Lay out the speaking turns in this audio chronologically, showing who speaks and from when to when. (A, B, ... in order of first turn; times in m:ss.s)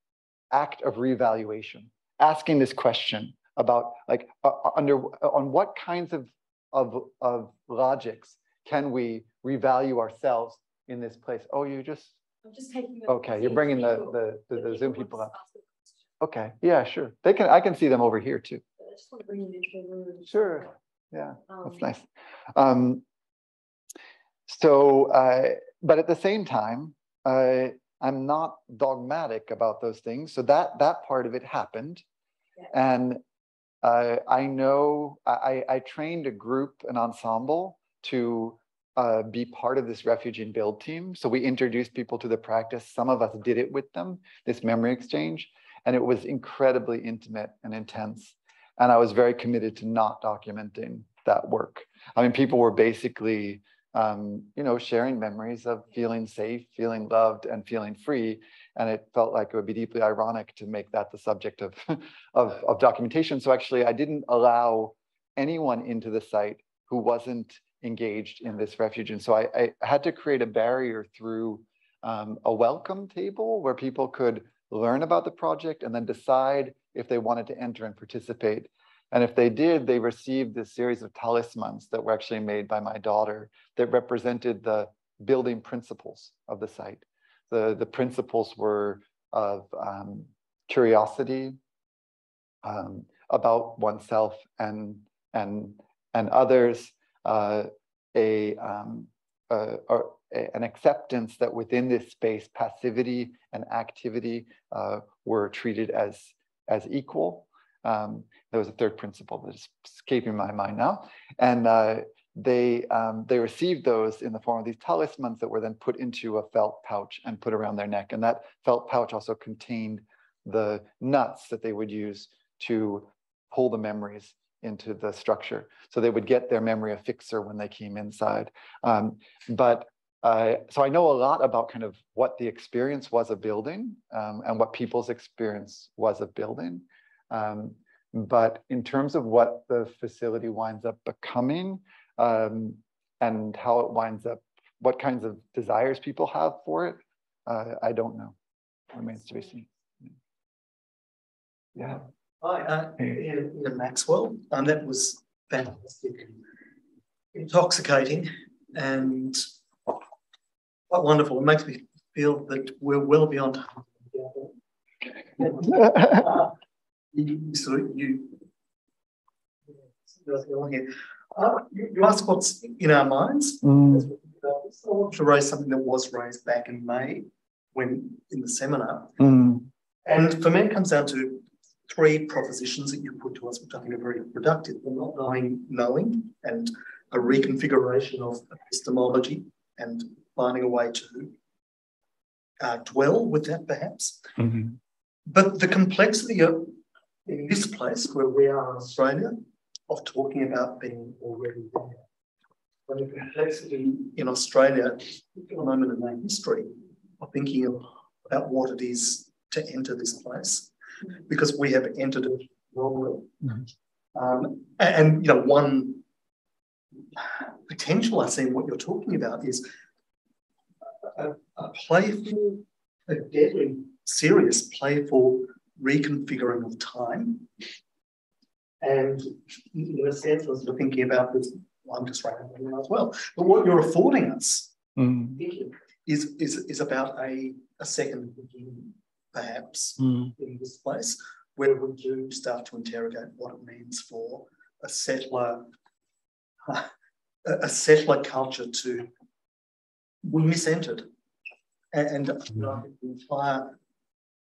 0:00.5-0:12.1 A
0:12.4-0:16.0 B
0:13.1-0:15.3 A
0:16.2-0:18.6 A
0:18.8-0:20.7 B
0:20.2-0:23.0 A
0:21.5-0:21.9 B
0:24.5-0:32.0 A
0:32.7-0:33.2 A
0:33.8-1:31.6 A
1:32.6-2:28.4 A
2:28.9-2:30.1 A
2:32.4-2:36.5 C
2:37.3-2:39.4 C
2:40.9-2:44.5 C
2:45.3-2:46.5 C
2:45.7-2:46.2 A
2:47.1-2:48.4 C
2:50.0-2:59.2 C
2:53.6-2:54.1 A
2:59.2-2:59.7 A
3:00.0-3:11.4 C
3:12.6-3:14.3 C
3:14.4-3:14.6 A
3:15.3-3:22.0 C
3:22.9-3:33.5 C
3:34.1-3:36.0 C
3:37.1-3:39.7 C
3:41.0-3:47.6 C
3:48.8-3:54.8 C
3:55.0-3:55.4 A
3:55.4-4:05.7 C
4:00.0-4:00.3 A
4:06.6-4:06.9 C
4:07.4-4:09.1 C
4:10.2-4:11.1 C
4:11.9-4:13.8 C